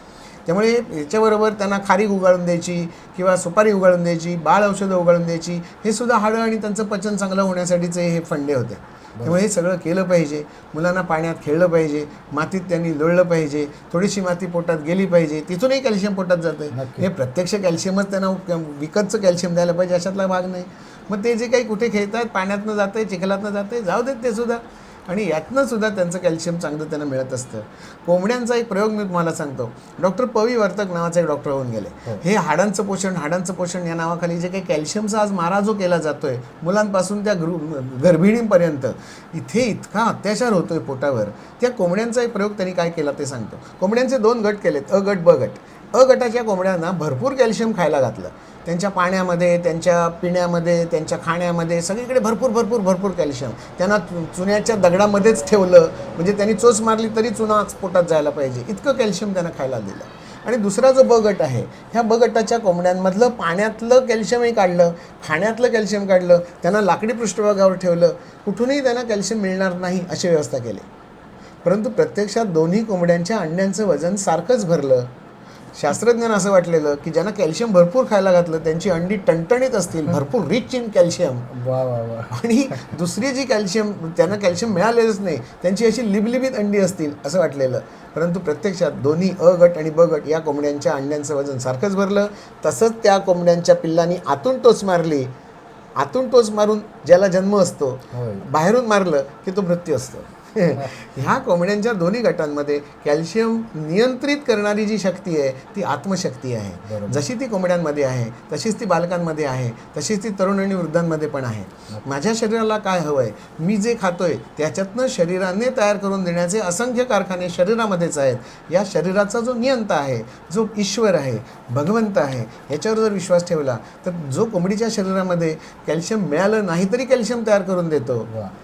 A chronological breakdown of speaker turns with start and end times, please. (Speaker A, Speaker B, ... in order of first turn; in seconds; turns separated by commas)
Speaker A: 0.5-70.9, Speaker B: 16.7-17.1, Speaker A: 71.6-75.1, Speaker A: 75.8-81.5, Speaker B: 81.5-82.4, Speaker A: 82.3-95.3, Speaker A: 96.0-128.3, Speaker B: 98.1-98.5, Speaker B: 106.9-107.3